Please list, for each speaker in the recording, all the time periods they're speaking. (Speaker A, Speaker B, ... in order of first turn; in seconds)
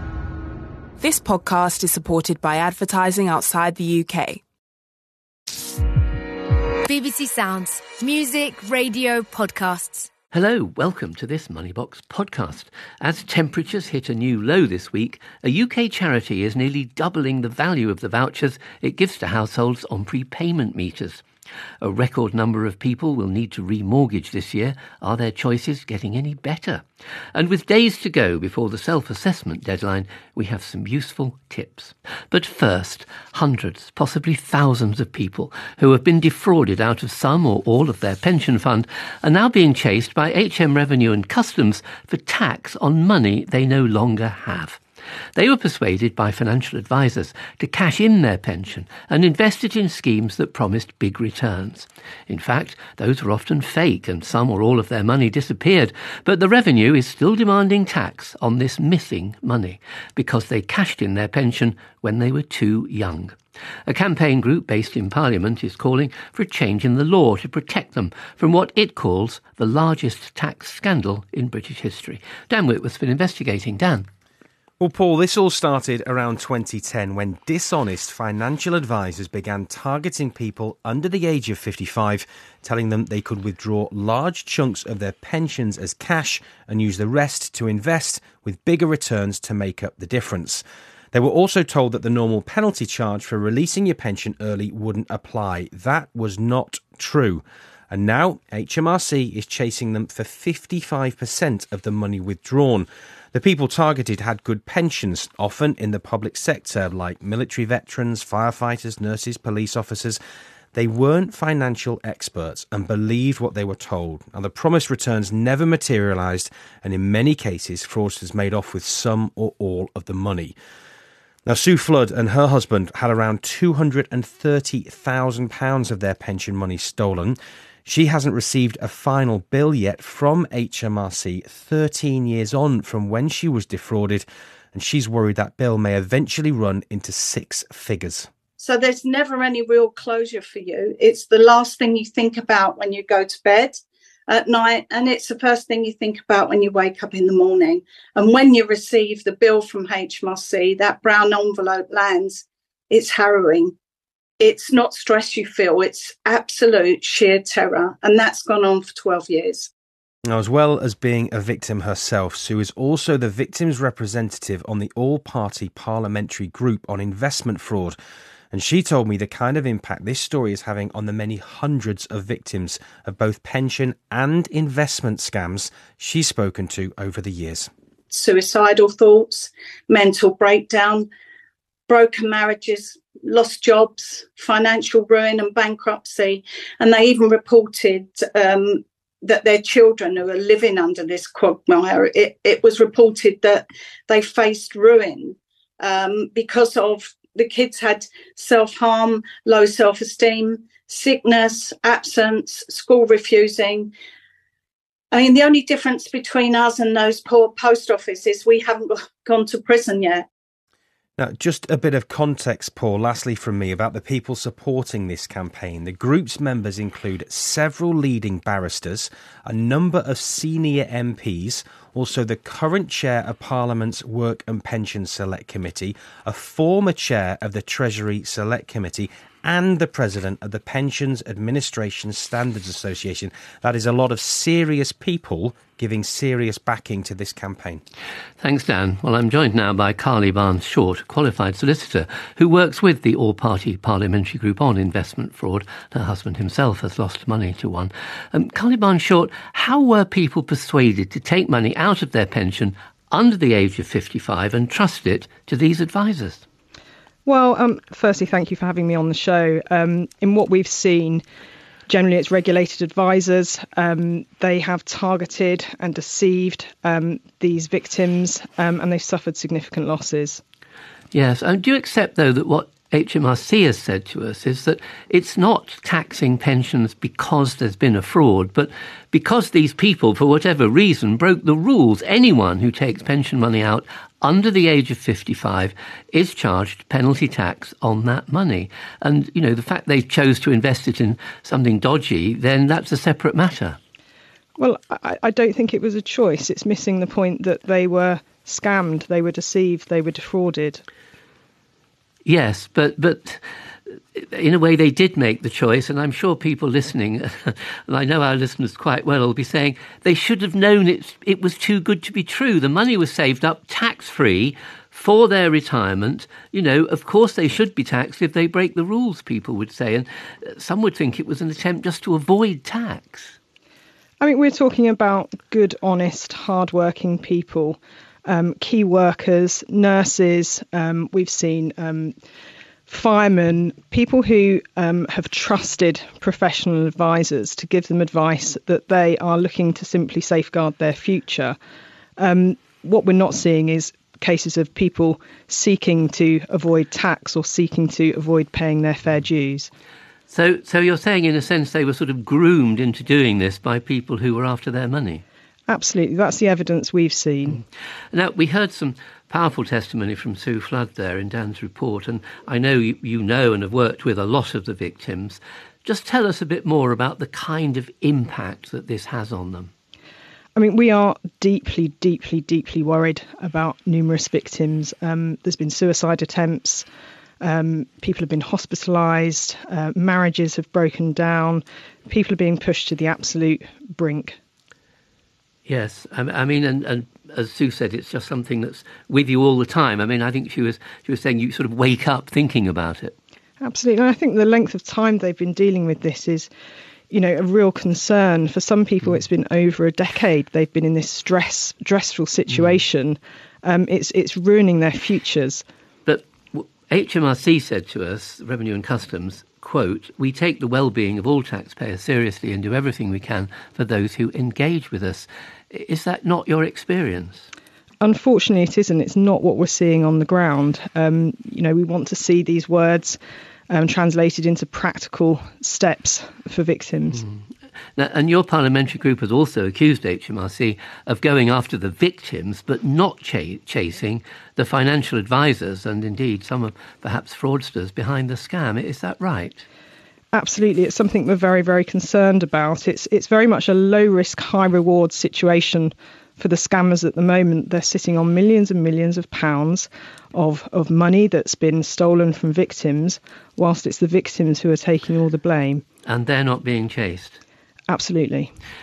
Speaker A: 1.0-4.4
Speaker B: 6.9-10.1
Speaker C: 10.3-21.2, 21.8-44.8, 45.4-74.1, 238.4-256.4, 271.1-293.8, 302.2-323.4, 350.3-355.2, 358.1-369.7, 385.7-393.2, 402.5-402.8, 406.1-417.5, 427.1-439.7, 456.1-457.4
Speaker D: 74.8-110.2, 110.7-120.5, 121.5-138.3, 160.3-168.0, 168.5-177.7, 211.2-237.8
Speaker E: 138.6-153.8, 154.4-159.7, 178.1-181.1, 181.9-203.9, 205.1-210.3
Speaker F: 257.3-261.2, 261.9-270.4, 294.6-300.8, 324.2-332.1, 332.9-341.6, 342.2-349.7, 355.7-357.6, 370.6-376.9, 377.4-384.4, 393.6-396.5, 397.1-405.6, 418.0-423.2, 423.7-427.2, 440.3-455.8, 457.9-458.5